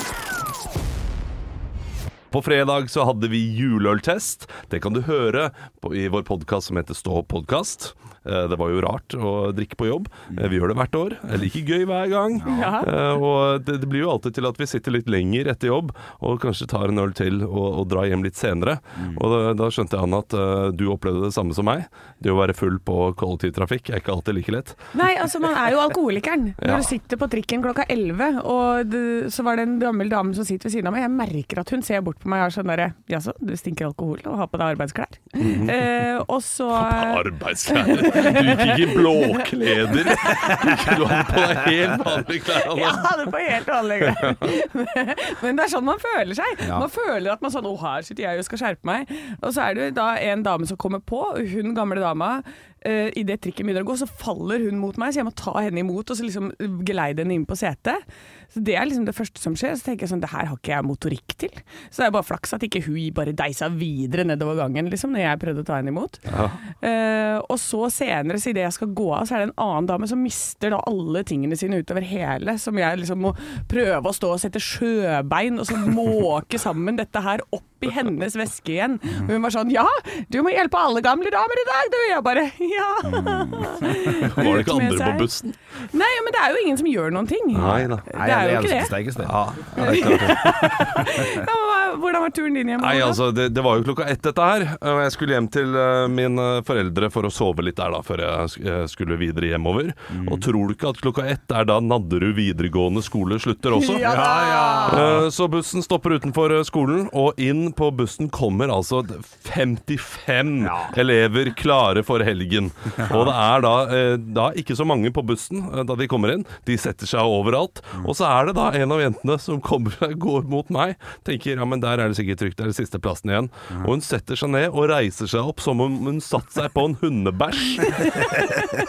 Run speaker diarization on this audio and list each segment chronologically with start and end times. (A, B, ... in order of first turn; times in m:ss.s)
0:02.3-0:24.8 A
0:12.4-0:12.7 B
0:12.4-0:12.9 C
0:24.9-0:40.9 C
0:26.6-0:26.9 A
0:35.4-0:35.8 A
0:36.7-0:43.2 A
0:42.6-1:06.2 C
0:44.0-0:44.5 A
0:46.6-0:46.9 B
1:06.3-1:06.6 A
1:06.8-1:25.3 C
1:23.0-1:24.2 B
1:24.2-1:25.6 A
1:25.9-1:29.0 C
1:27.5-1:28.1 A
1:27.6-1:29.4 B
1:29.2-1:31.0 A
1:29.8-1:33.2 C
1:32.8-1:44.1 A
1:40.1-1:40.5 B
1:43.7-1:45.1 C
1:44.0-1:45.3 B
1:44.9-2:08.4 A
1:50.6-1:51.0 B